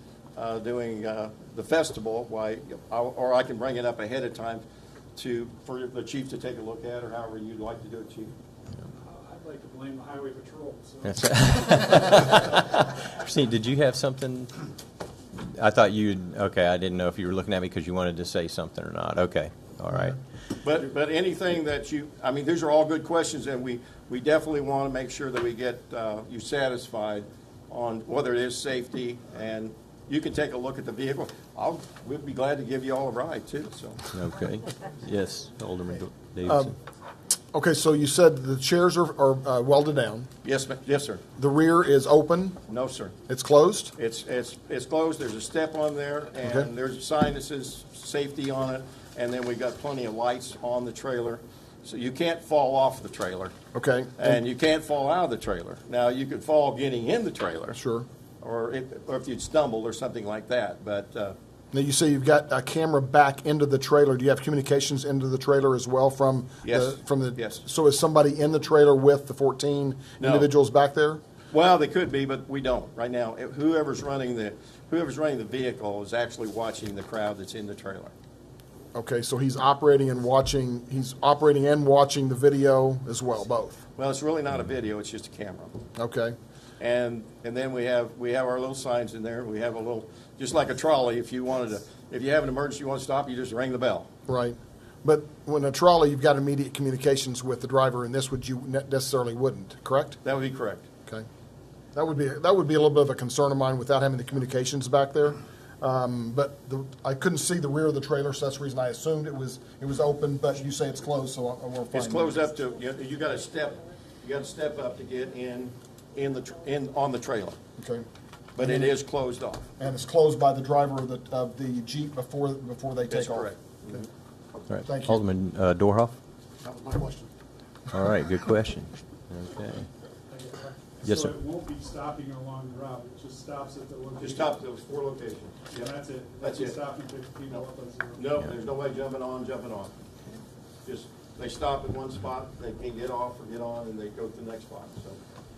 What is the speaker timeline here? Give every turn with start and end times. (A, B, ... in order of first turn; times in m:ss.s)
0:00.4-0:04.6 A
0:05.2-0:08.3 A
0:09.0-0:12.5 B
0:11.0-0:14.6 C
0:15.4-0:20.2 C
0:20.6-0:34.1 A
0:34.1-0:36.7 C
0:36.4-0:36.8 D
0:37.5-0:40.3 D
0:40.4-0:41.2 A
0:41.4-0:42.6 D
0:42.7-0:43.2 A
0:43.3-0:43.9 D
0:44.0-0:53.6 A
0:46.4-0:46.7 D
0:53.7-0:54.4 D
0:54.2-0:57.8 A
0:57.7-0:58.1 D
0:58.4-1:01.4 A
1:01.7-1:11.2 D
1:06.6-1:07.6 A
1:10.2-1:10.5 A
1:11.5-1:18.1 A
1:19.0-1:23.8 D
1:24.0-1:25.8 A
1:26.0-1:26.4 D
1:26.8-1:34.1 A
1:34.3-1:40.2 D
1:40.2-1:40.8 A
1:41.9-1:52.5 D
1:51.9-1:57.6 A
1:57.8-1:58.0 D
1:58.6-1:59.6 A
1:58.6-1:59.0 D
1:59.8-2:04.0 D
2:03.1-2:04.1 A
2:04.7-2:06.2 C
2:04.8-2:05.2 D
2:06.6-2:07.3 D
2:07.9-2:09.9 C
2:10.3-2:14.6 B
2:11.0-2:11.4 C
2:14.2-2:16.8 A
2:15.8-2:18.4 B
2:17.5-2:20.0 A
2:20.8-2:25.2 A